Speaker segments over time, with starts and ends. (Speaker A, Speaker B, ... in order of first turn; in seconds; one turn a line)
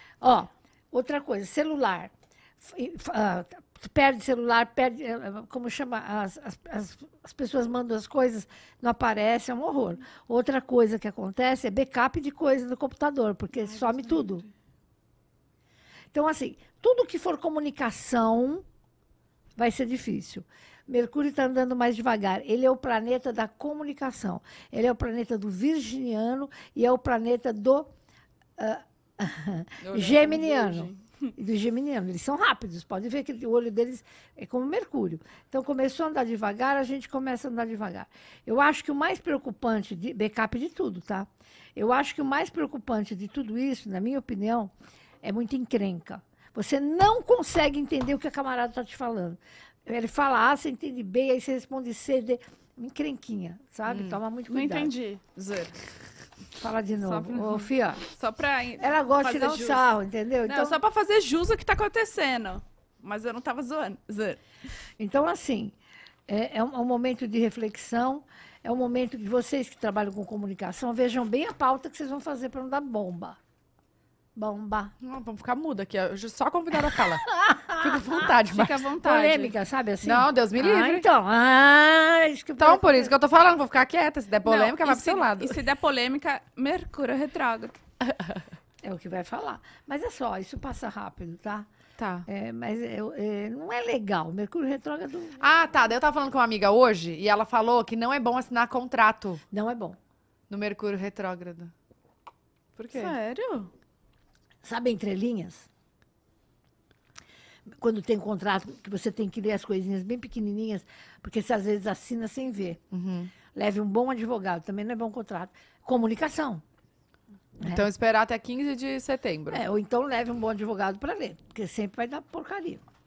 Speaker A: 0.2-14.4
Speaker B: 13.5-14.5
Speaker A: 16.1-18.6
Speaker A: 19.6-27.9
Speaker A: 28.6-44.7
Speaker C: 29.8-30.4
Speaker B: 30.1-31.0
Speaker A: 45.2-54.9
Speaker C: 53.9-54.2
Speaker B: 54.5-55.8
Speaker A: 56.6-58.0
Speaker B: 57.0-59.9
Speaker A: 58.8-60.8
Speaker B: 60.5-64.4
Speaker A: 65.0-65.8
Speaker A: 66.3-73.4
Speaker A: 74.4-75.0
Speaker C: 75.0-78.8
Speaker A: 77.3-77.8
Speaker B: 78.3-79.5
Speaker A: 79.0-83.1
Speaker C: 80.0-81.1
Speaker C: 82.6-85.6
Speaker B: 84.4-87.8
Speaker A: 88.8-91.7
Speaker C: 92.0-92.3
Speaker A: 92.3-95.4
Speaker C: 95.4-99.4
Speaker A: 99.5-100.0
Speaker C: 100.5-101.7
Speaker C: 102.8-103.2
Speaker B: 102.9-103.7
Speaker A: 104.6-105.7
Speaker A: 107.8-112.8
Speaker C: 112.9-113.3
Speaker A: 113.5-116.6
Speaker C: 117.7-119.6
Speaker A: 119.5-122.8